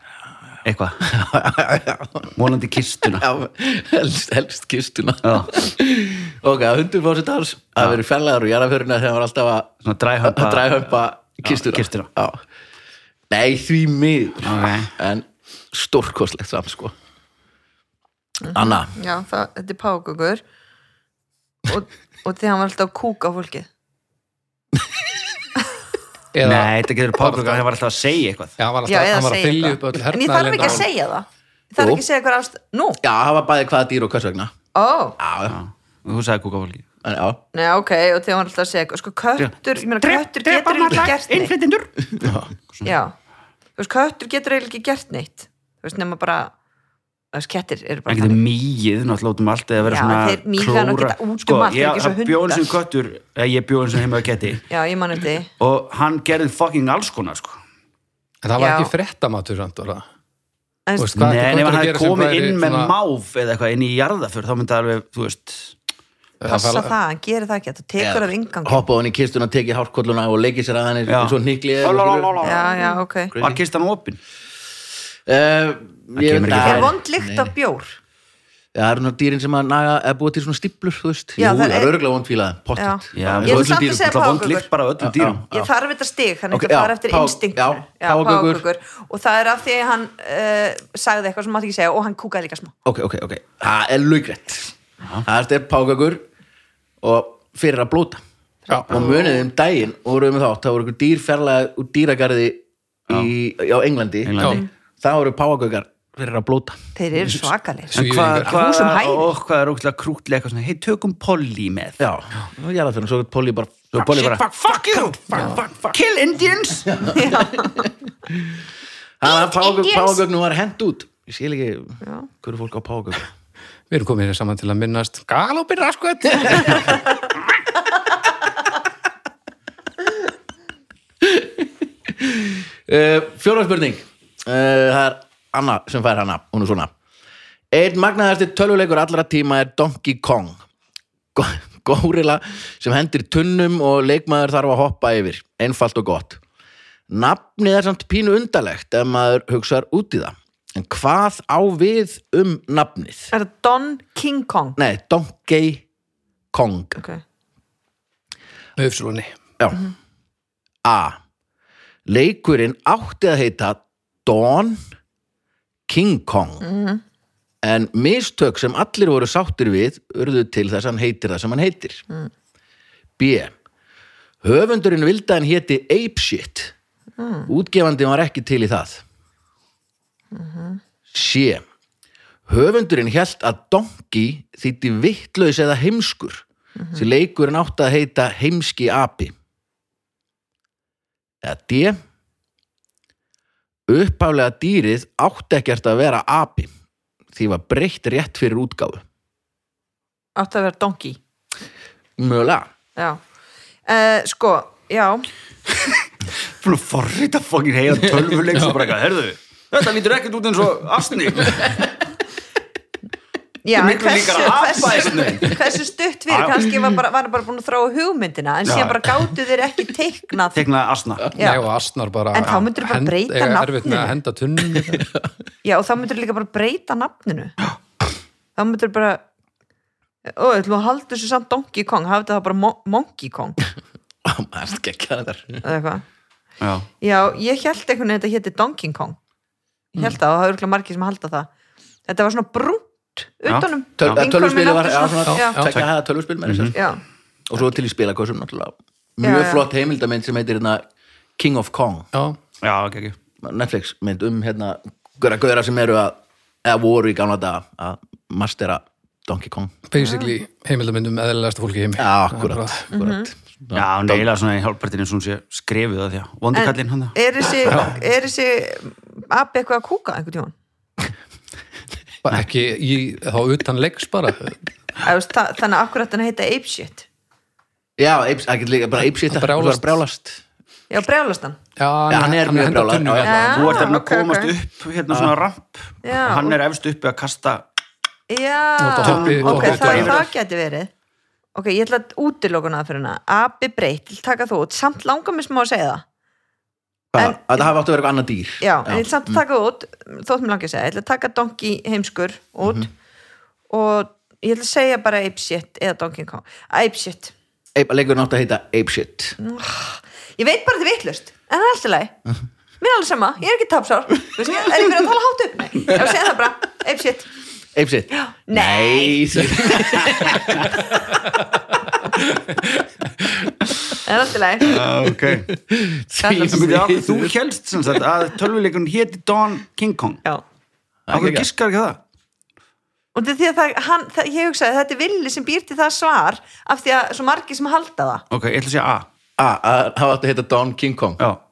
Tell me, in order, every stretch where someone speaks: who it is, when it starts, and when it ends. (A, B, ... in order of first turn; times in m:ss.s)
0:00.6-0:01.1 A
0:01.0-0:02.3 B
0:02.4-0:03.3 A
0:03.0-0:09.7 B
0:05.2-0:05.5 A
0:09.8-0:10.8 A
0:10.2-0:12.4 B
0:11.4-0:12.1 A
0:13.3-0:16.9 B
0:14.4-0:14.9 A
0:18.4-0:20.4 C
0:18.5-0:18.9 B
0:21.7-0:23.7 C
0:26.3-0:27.7 D
0:26.4-0:28.6 A
0:28.6-0:30.9 D
0:28.9-0:33.0 C
0:31.8-0:32.0 B
0:33.0-0:34.5 B
0:34.8-0:35.2 C
0:35.2-0:35.6 B
0:35.5-0:36.9 A
0:37.0-0:37.4 B
0:37.5-0:41.5 C
0:39.4-0:42.9 A
0:42.8-0:43.1 C
0:43.8-0:46.5 C
0:47.3-0:48.4 C
0:48.1-0:54.6 A
0:49.8-0:52.7 C
0:54.7-0:55.5 C
0:55.6-0:57.6 A
0:58.4-1:00.0 D
0:58.6-0:58.9 C
1:00.9-1:01.2 C
1:01.0-1:02.9 D
1:01.2-1:05.8 A
1:06.4-1:06.9 D
1:06.5-1:08.9 C
1:08.0-1:12.4 B
1:11.1-1:14.2 A
1:12.4-1:13.4 C
1:13.4-1:13.6 B
1:15.3-1:17.5 B
1:16.2-1:17.0 A
1:16.6-1:18.0 C
1:18.7-1:24.1 B
1:21.4-1:22.0 C
1:22.8-1:24.7 C
1:23.2-1:25.4 A
1:25.0-1:25.7 B
1:25.5-1:32.7 C
1:26.5-1:28.6 B
1:32.8-1:34.7 B
1:35.2-1:36.2 B
1:37.0-1:38.2 B
1:38.7-1:39.4 C
1:38.9-1:46.8 B
1:44.2-1:44.6 A
1:47.0-1:49.3 C
1:47.2-1:48.6 D
1:47.9-1:52.0 A
1:52.0-1:56.0 B
1:53.9-1:57.0 A
1:56.9-1:58.6 B
1:57.0-1:57.9 C
1:59.2-2:03.3 B
1:59.2-2:00.2 C
2:02.0-2:02.3 C
2:03.9-2:07.0 D
2:06.4-2:06.8 B
2:11.2-2:16.9 B
2:17.7-2:20.6 B
2:21.4-2:26.4 B
2:27.1-2:33.3 B
2:33.3-2:34.8 C
2:34.8-2:35.8 B
2:36.5-2:37.0 B
2:37.0-2:37.2 C
2:38.8-2:39.3 D
2:39.6-2:39.8 B
2:40.8-2:41.2 B
2:42.1-2:44.8 B
2:45.9-2:46.6 B
2:46.6-2:47.0 C
2:47.6-2:52.0 B
2:53.2-2:53.5 B
2:54.4-2:56.7 B
2:57.2-2:57.5 C
2:57.5-2:59.0 B
3:00.3-3:00.8 C
3:01.1-3:01.6 B
3:02.5-3:09.3 B
3:06.8-3:07.0 C
3:11.4-3:12.0 B
3:13.9-3:16.7 B
3:17.3-3:19.0 B
3:20.4-3:21.2 C
3:22.2-3:22.7 B
3:23.9-3:25.3 C
3:26.6-3:31.8 A
3:33.6-3:40.6 C
3:33.8-3:35.6 A
3:36.3-3:36.6 A
3:38.7-3:39.2 A
3:40.6-3:41.3 A
3:41.4-3:41.7 C
3:41.4-3:45.1 D
3:42.3-3:44.2 C
3:44.7-3:45.2 B
3:45.6-3:47.6 C
3:48.6-3:49.2 C
3:50.2-3:53.6 C
3:54.2-3:55.6 B
3:55.6-3:56.0 C
3:56.6-3:56.9 A
3:57.0-3:59.2 C
3:59.9-4:01.5 C
4:02.1-4:05.6 C
4:03.5-4:04.2 A
4:04.0-4:06.8 B
4:05.3-4:05.8 D
4:06.4-4:06.8 A
4:06.7-4:07.0 C
4:07.5-4:10.8 B
4:09.2-4:09.7 C
4:11.4-4:12.1 B
4:12.6-4:13.2 A
4:13.4-4:19.7 B
4:19.9-4:22.9 D
4:20.0-4:20.3 C
4:22.0-4:24.3 B
4:22.9-4:23.3 C
4:23.8-4:27.8 A
4:26.5-4:30.5 C
4:32.2-4:34.6 D
4:35.0-4:37.1 C
4:38.0-4:40.4 B
4:39.3-4:40.0 D
4:40.9-4:41.6 C
4:41.8-4:43.5 D
4:42.1-4:43.8 B
4:43.2-4:44.5 C
4:43.4-4:47.6 A
4:46.0-4:46.6 C
4:48.3-4:50.9 C
4:48.8-4:50.2 D
4:49.0-4:50.2 A
4:51.6-4:56.0 C
4:57.1-4:59.4 B
4:57.2-4:57.7 C
4:58.6-5:02.9 C
5:02.6-5:02.9 B
5:03.7-5:07.3 C
5:07.8-5:09.4 B
5:09.4-5:12.1 C
5:12.8-5:17.3 C
5:17.8-5:21.2 B
5:18.1-5:20.0 C
5:23.2-5:23.7 B
5:24.0-5:24.8 C
5:24.6-5:25.5 A
5:25.3-5:27.3 B
5:26.2-5:26.6 C
5:26.3-5:30.2 A
5:31.1-5:31.5 B
5:31.1-5:32.0 A
5:33.2-5:38.2 C
5:38.3-5:39.1 A
5:39.4-5:41.2 B